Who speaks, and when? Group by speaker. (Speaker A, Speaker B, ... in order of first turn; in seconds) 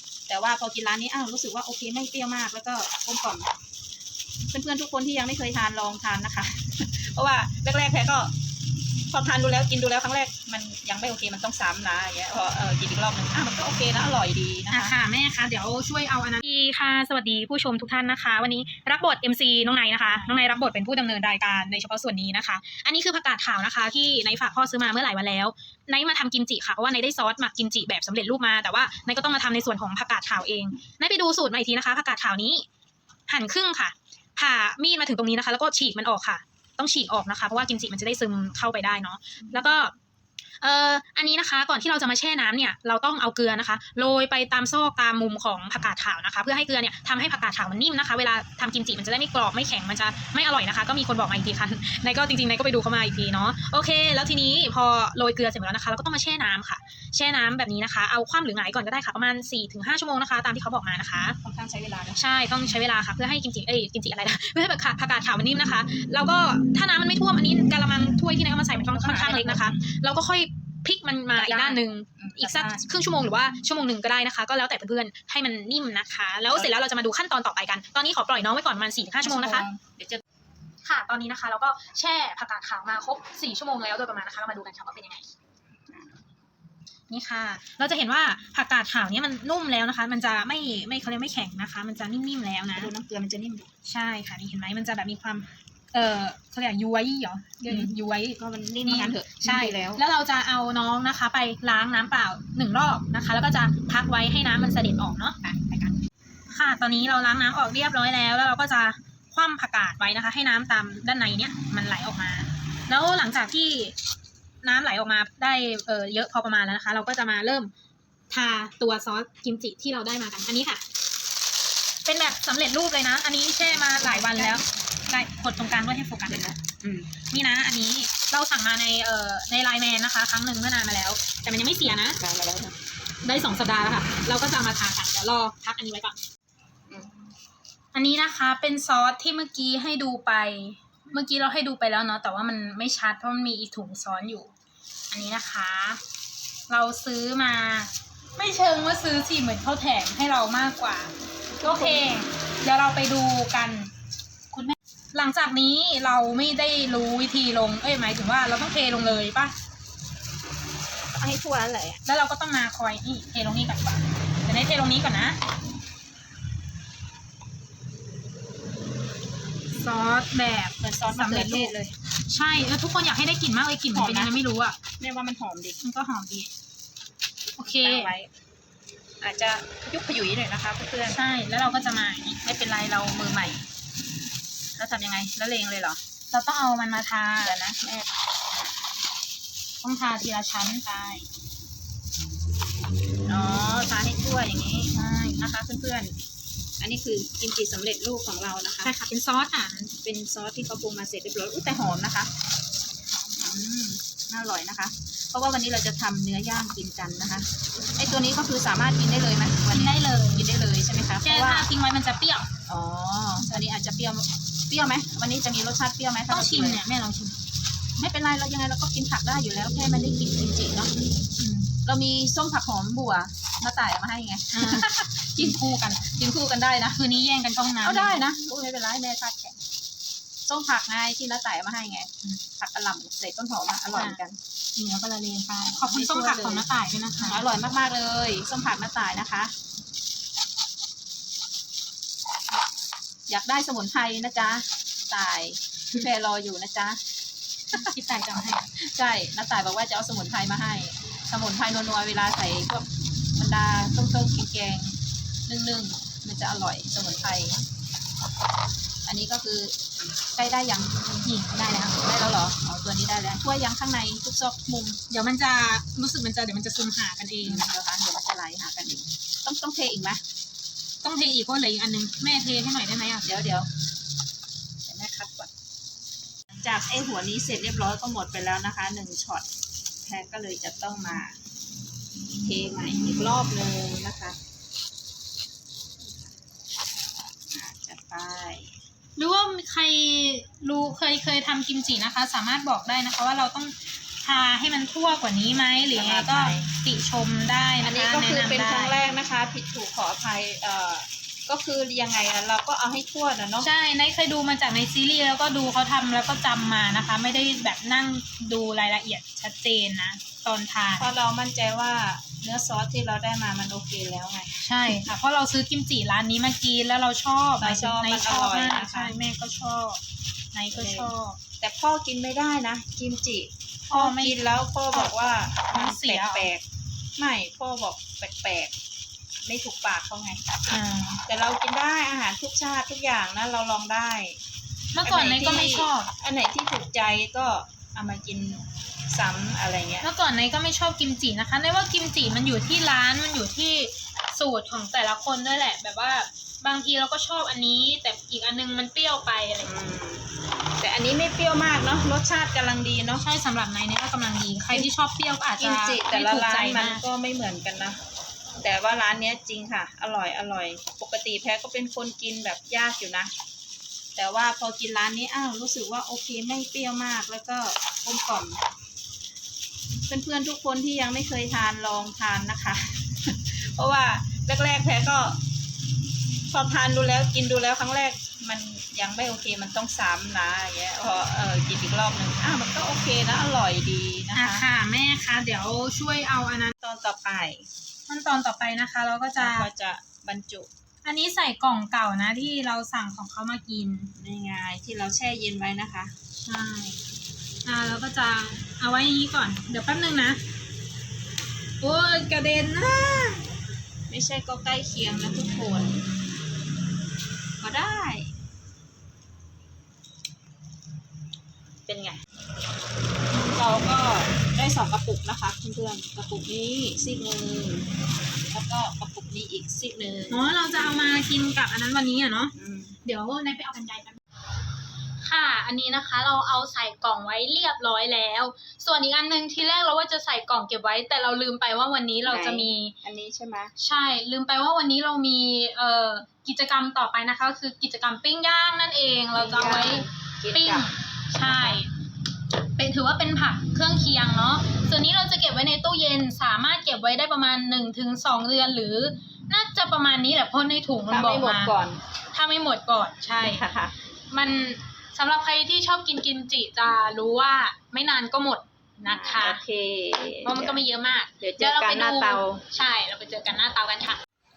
Speaker A: 0.3-3.5, 4.5-8.3, 9.1-14.9, 20.0-20.4, 39.4-39.6, 61.4-62.2, 68.9-69.8, 71.3-72.9, 79.2-80.2, 92.7-93.7, 97.7-100.0, 105.4-105.9, 123.6-124.6, 126.3-127.1, 132.2-132.8, 136.9-137.3, 151.6-152.2, 161.1-162.0, 170.8-171.9, 173.9-174.3, 175.0-175.8, 177.6-178.3, 179.2-181.2, 182.4-183.7, 184.8-186.0, 187.4-188.7, 193.3-196.2, 196.8-198.9, 200.0-202.3, 203.4-211.7, 212.7-216.8, 218.0-220.9, 221.8-227.0, 227.8-229.6, 230.4-234.4, 235.8-236.7, 237.2-239.5, 243.3-247.0, 248.7-254.9, 255.5-257.6, 259.0-259.8, 260.3-265.0, 267.4-270.2, 273.2-273.7, 274.8-275.5, 276.6-279.5, 280.0-281.4, 282.4-284.4, 286.0-286.3, 287.5-288.8, 295.9-296.7, 297.8-303.7, 311.0-314.6, 317.6-319.2, 320.7-326.6, 327.2-328.7, 329.4-330.5, 331.2-334.4, 335.0-340.1, 349.6-353.2, 355.6-358.0, 358.6-363.3, 364.1-368.6, 370.1-375.4, 376.5-384.6, 386.8-387.6, 389.4-390.7, 394.1-396.1, 404.1-406.0, 407.6-408.3, 411.9-412.2, 413.3-417.9, 418.5-420.4, 422.5-423.0, 432.2-433.7, 439.3-441.8, 451.1-452.0, 453.4-454.0, 459.1-460.8, 461.4-462.6
Speaker B: 14.7-32.7, 33.3-39.9, 40.6-61.4, 62.2-79.7, 80.8-85.3, 87.1-92.9, 93.8-105.4, 106.5-113.9, 114.6-117.7, 118.3-120.8, 122.0-126.5, 127.3-132.2, 133.2-136.2, 137.9-144.5, 145.1-146.0, 146.7-153.9, 154.5-159.5, 162.0-165.4, 169.7-171.8, 172.3-174.8, 175.8-176.5, 177.6-178.1, 181.1-182.4, 186.3-187.5, 189.8-191.3, 194.9-195.5, 198.8-199.9, 203.1-203.4, 209.7-210.5, 211.2-212.5, 216.3-217.4, 221.4-221.7, 224.5-226.2, 226.9-228.3, 234.8-237.4, 247.7-248.7, 261.2-262.0, 265.1-267.6, 271.0-273.3, 289.2-298.9, 303.6-311.1, 314.6-320.0, 320.5-321.4, 323.9-324.4, 325.7-326.5, 330.7-331.2, 334.9-336.1, 340.0-349.7, 353.2-357.0, 384.3-386.7, 388.1-389.7, 391.0-394.1, 396.4-397.0, 397.6-400.4, 401.8-403.5, 420.3-422.5, 423.0-424.2, 425.2-432.9, 433.8-441.9, 442.8-451.7, 452.3-453.6, 454.3-459.6, 460.4-464.2